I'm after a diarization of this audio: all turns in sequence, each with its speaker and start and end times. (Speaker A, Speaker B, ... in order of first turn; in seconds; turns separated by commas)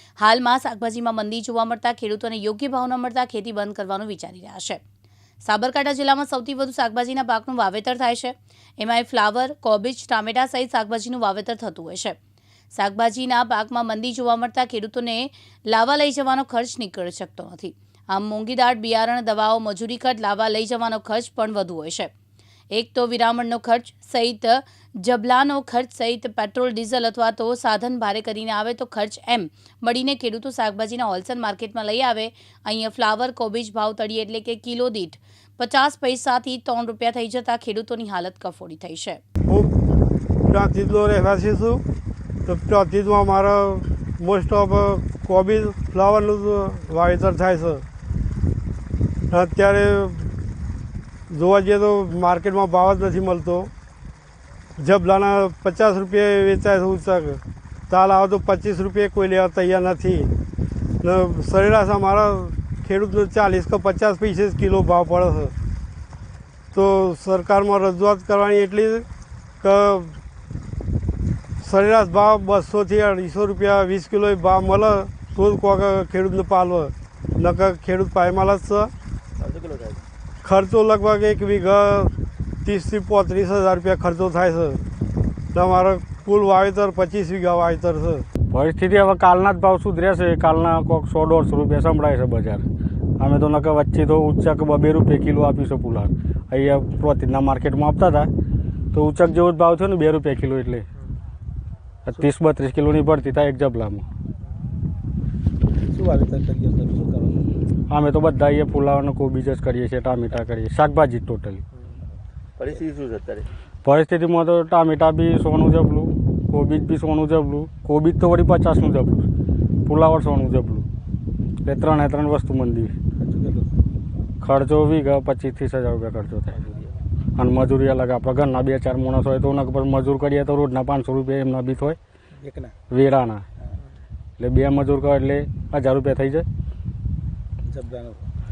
Speaker A: 0.2-4.8, Speaker A: 5.4-12.2, Speaker A: 12.7-22.1, Speaker A: 22.7-39.2, Speaker B: 39.5-39.8, Speaker B: 40.5-41.8, Speaker B: 42.5-47.9, Speaker B: 49.3-50.4, Speaker B: 51.3-53.7, Speaker B: 54.8-60.3, Speaker B: 61.0-65.5, Speaker B: 66.7-69.1, Speaker B: 69.6-70.2, Speaker B: 71.6-78.9, Speaker C: 79.4-80.0, Speaker B: 80.4-82.1, Speaker B: 82.6-84.8, Speaker B: 85.5-88.3, Speaker D: 88.5-92.7, Speaker D: 93.2-98.3, Speaker D: 98.9-100.9, Speaker D: 102.1-104.1, Speaker C: 105.9-107.5, Speaker D: 107.9-111.6, Speaker C: 112.6-113.5, Speaker D: 113.8-119.3, Speaker D: 119.9-120.9, Speaker D: 121.7-122.9, Speaker C: 123.2-123.8, Speaker D: 124.4-126.6, Speaker C: 126.5-127.0, Speaker D: 127.4-132.0, Speaker C: 132.4-132.7, Speaker D: 132.9-133.4, Speaker D: 134.4-136.5, Speaker C: 137.6-138.3